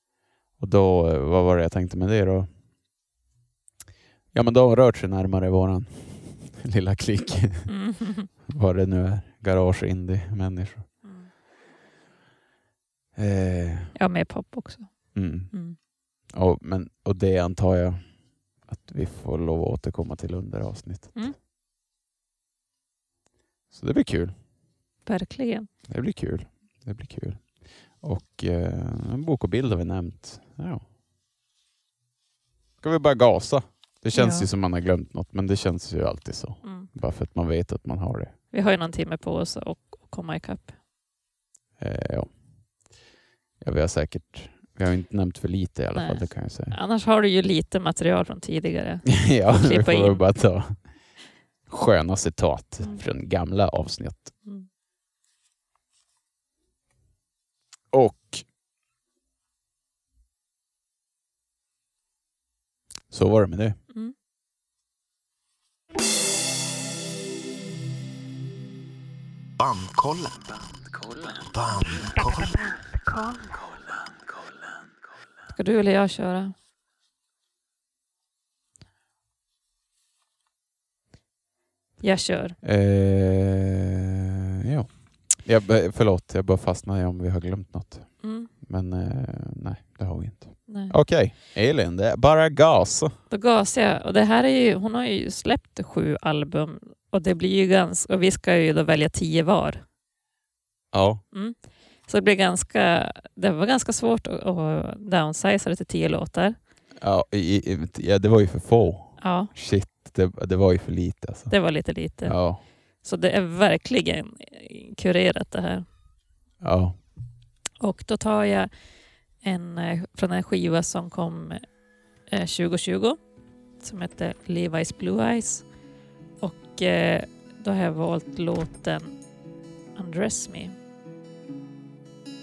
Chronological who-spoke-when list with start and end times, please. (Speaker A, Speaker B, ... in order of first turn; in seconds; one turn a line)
Speaker A: 0.6-2.5
Speaker A: 4.3-11.0
Speaker B: 7.7-8.3
Speaker B: 11.0-11.3
Speaker A: 13.2-14.0
Speaker B: 13.9-15.8
Speaker A: 15.1-21.3
Speaker A: 23.7-24.4
Speaker B: 25.1-25.7
Speaker A: 25.9-30.9
Speaker A: 32.8-38.4
Speaker B: 34.1-34.5
Speaker B: 36.6-36.9
Speaker B: 38.5-40.7
Speaker A: 41.8-42.4
Speaker A: 43.6-46.8
Speaker B: 46.0-50.6
Speaker A: 49.1-54.5
Speaker B: 52.8-53.0
Speaker A: 57.9-58.5
Speaker A: 63.1-63.8
Speaker C: 69.6-73.0
Speaker B: 72.2-73.4
Speaker B: 75.5-76.5
Speaker B: 82.0-82.6
Speaker A: 82.6-83.9
Speaker A: 84.7-93.2
Speaker B: 88.2-88.5
Speaker B: 90.7-91.2
Speaker B: 93.3-99.8
Speaker A: 100.9-101.2
Speaker B: 101.3-106.6
Speaker A: 107.0-112.6
Speaker B: 109.2-109.5
Speaker B: 111.5-115.8
Speaker A: 116.6-117.0
Speaker B: 117.8-125.8
Speaker B: 126.4-129.3
Speaker B: 129.9-130.8